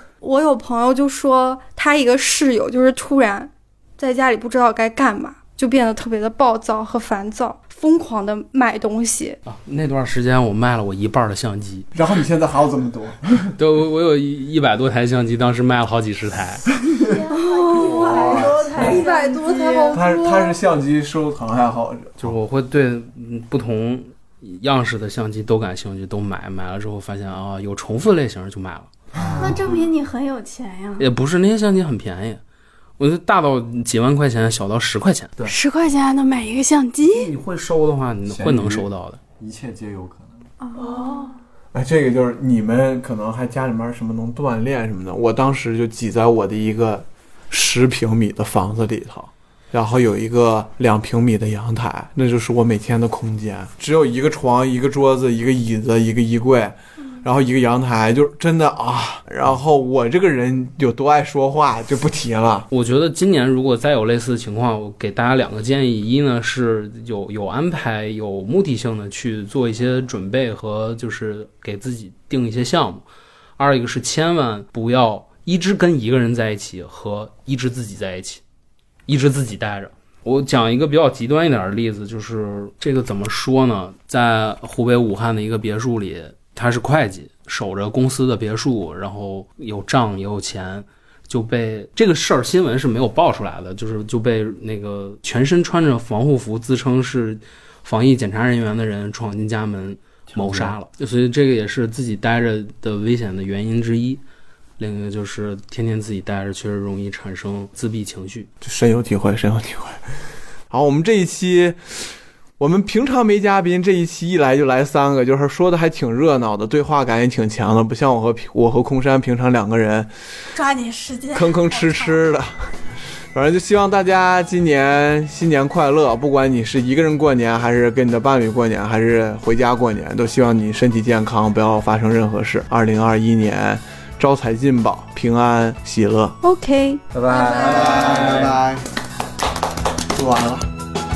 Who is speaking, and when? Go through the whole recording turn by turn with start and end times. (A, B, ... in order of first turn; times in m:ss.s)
0:00.2-0:09.4 A
0:09.4-0:11.9 B
0:11.9-0:13.5 C
0:13.6-0:16.6 B
0:17.1-0:20.0 D
0:17.4-0:20.6 A
0:17.8-0:19.0 C
0:19.9-0:22.1 C
0:22.2-0:28.9 B
0:29.2-0:29.7 E
0:29.4-0:31.0 D
0:31.0-0:32.4 B
0:33.0-0:35.5 B
0:35.4-0:37.3 D
0:37.0-0:39.2 B
0:38.2-0:38.9 E
0:39.4-0:40.5 E
0:40.6-0:41.3 A
0:40.7-0:41.3 D
0:41.7-1:02.7 C
1:02.7-1:13.0 B
1:13.6-1:18.4 B
1:19.1-1:44.2 B
1:40.3-1:40.7 E
1:44.8-1:48.5 B
1:48.6-1:50.0 C
1:50.7-1:52.0 C
1:52.6-2:00.1 C
2:00.5-2:02.2 D
2:01.3-2:02.7 C
2:03.3-2:16.4 C
2:16.4-2:17.0 D
2:17.1-2:18.7 E
2:17.3-2:18.8 C
2:18.1-2:18.5 B
2:20.1-2:20.6 C